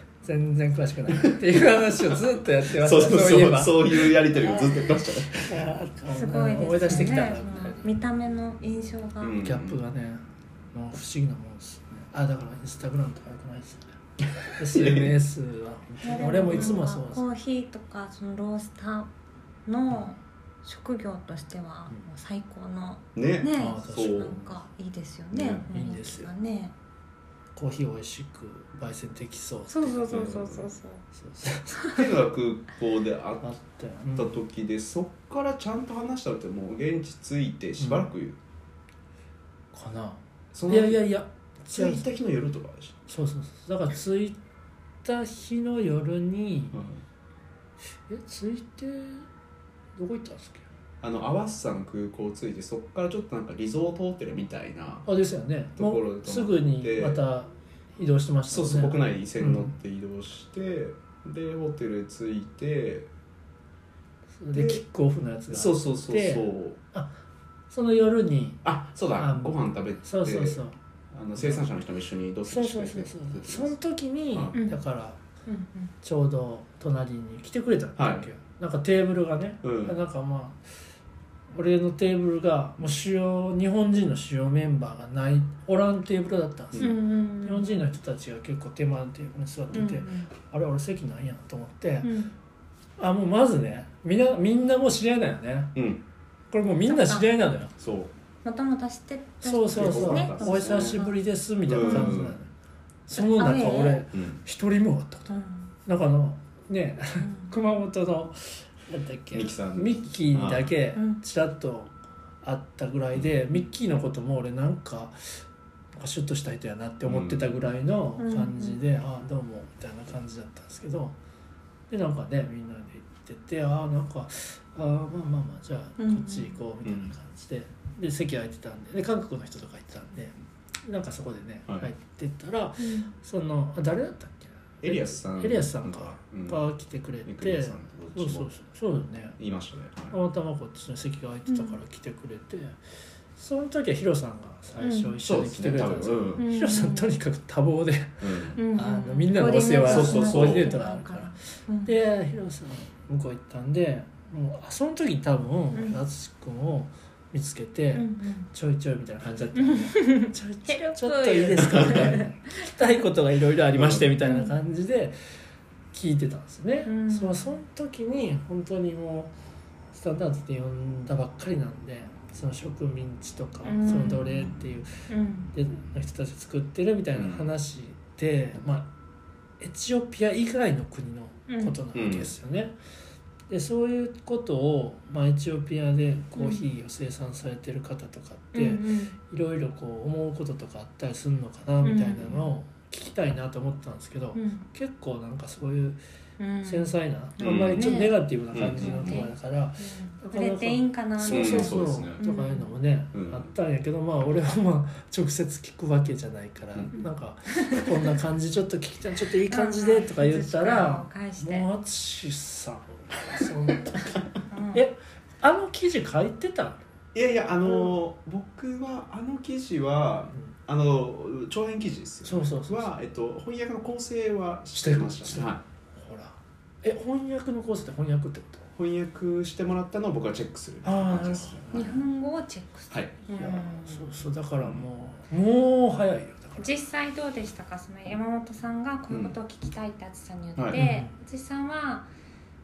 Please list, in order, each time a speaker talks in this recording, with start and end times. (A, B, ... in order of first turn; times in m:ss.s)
0:00.2-0:04.2 A
0:01.1-0:05.6 B
0:05.4-0:07.8 A
0:06.1-0:09.4 C
0:09.2-0:09.8 B
0:09.4-0:14.0 A
0:14.5-0:17.2 A
0:14.6-0:15.1 B
0:16.0-0:19.1 C
0:16.4-0:16.8 B
0:19.7-0:26.7 C
0:23.2-0:24.6 B
0:23.6-0:24.4 A
0:25.3-0:25.7 B
0:25.7-0:26.3 A
0:27.6-0:30.4 A
0:29.7-0:31.0 C
0:30.1-0:30.7 B
0:31.1-0:32.1 A
0:31.9-0:33.6 B
0:33.4-0:34.4 A
0:34.2-0:38.4 B
0:37.8-0:38.1 A
0:39.7-0:42.0 A
0:40.5-0:41.1 B
0:41.7-0:43.0 B
0:43.1-0:44.4 A
0:45.0-0:46.8 A
0:46.7-0:47.0 B
0:48.1-0:49.3 A
0:50.0-0:50.7 A
0:51.0-0:55.1 B
0:55.0-0:59.7 A
0:55.8-0:57.2 B
0:58.5-1:03.1 B
1:04.4-1:07.1 A
1:04.5-1:04.8 B
1:05.5-1:06.8 B
1:07.7-1:08.6 A
1:08.6-1:13.8 B
1:09.2-1:10.8 A
1:11.4-1:11.6 A
1:12.5-1:15.2 A
1:14.5-1:14.8 C
1:15.5-1:15.9 C
1:16.0-1:20.6 A
1:18.0-1:18.3 B
1:19.6-1:20.0 B
1:21.5-1:32.1 A
1:26.8-1:27.8 C
1:29.7-1:30.3 C
1:32.0-1:32.3 C
1:33.0-1:35.8 A
1:35.8-1:36.0 B
1:36.5-1:37.7 A
1:36.9-1:37.3 C
1:37.8-1:38.1 B
1:38.4-1:41.2 C
1:39.4-1:42.5 A
1:39.7-1:41.0 B
1:41.7-1:42.4 B
1:41.8-1:42.2 C
1:43.1-1:45.3 A
1:43.2-1:44.0 C
1:44.1-1:44.4 B
1:45.3-1:45.7 C
1:45.9-1:55.4 A
1:47.2-1:47.5 C
1:49.3-1:50.7 B
1:50.9-1:51.2 C
1:56.0-2:01.2 A
1:57.1-1:57.6 B
1:58.2-1:58.8 C
2:01.9-2:19.4 A
2:06.0-2:06.6 C
2:06.8-2:07.1 B
2:12.8-2:13.1 C
2:14.8-2:16.6 B
2:17.3-2:18.5 B
2:19.4-2:20.2 B
2:20.1-2:22.8 A
2:21.5-2:21.8 C
2:23.4-2:45.2 A
2:24.8-2:25.2 C
2:25.2-2:26.4 B
2:26.4-2:27.1 C
2:28.2-2:28.6 B
2:28.6-2:32.0 C
2:29.9-2:30.8 B
2:35.7-2:36.0 C
2:37.9-2:38.5 C
2:39.6-2:43.0 C
2:41.7-2:42.1 B
2:43.7-2:44.1 B
2:44.2-2:44.5 C
2:45.9-2:49.3 A
2:46.8-2:47.6 C
2:49.9-2:58.9 A
2:53.6-2:54.5 C
2:55.1-2:55.5 C
2:57.2-2:57.5 B
2:59.6-3:02.8 A
3:01.5-3:01.8 C
3:02.0-3:02.3 B
3:03.5-3:16.0 A
3:06.4-3:06.6 C
3:08.5-3:09.2 C
3:11.8-3:12.5 C
3:14.4-3:14.6 C
3:16.4-3:18.2 C
3:16.6-3:36.8 A
3:17.4-3:19.3 B
3:18.8-3:22.7 C
3:21.3-3:22.2 B
3:23.1-3:23.5 B
3:27.0-3:28.1 C
3:29.5-3:31.7 C
3:34.5-3:34.8 C
3:37.1-3:45.6 B
3:42.2-3:42.9 A
3:44.8-3:48.7 A
3:48.8-3:52.0 B
3:50.8-3:52.0 A
3:51.7-3:54.1 C
3:52.9-3:53.7 B
3:53.4-3:56.7 A
3:56.6-4:02.1 C
3:59.1-3:59.4 B
4:00.7-4:01.1 A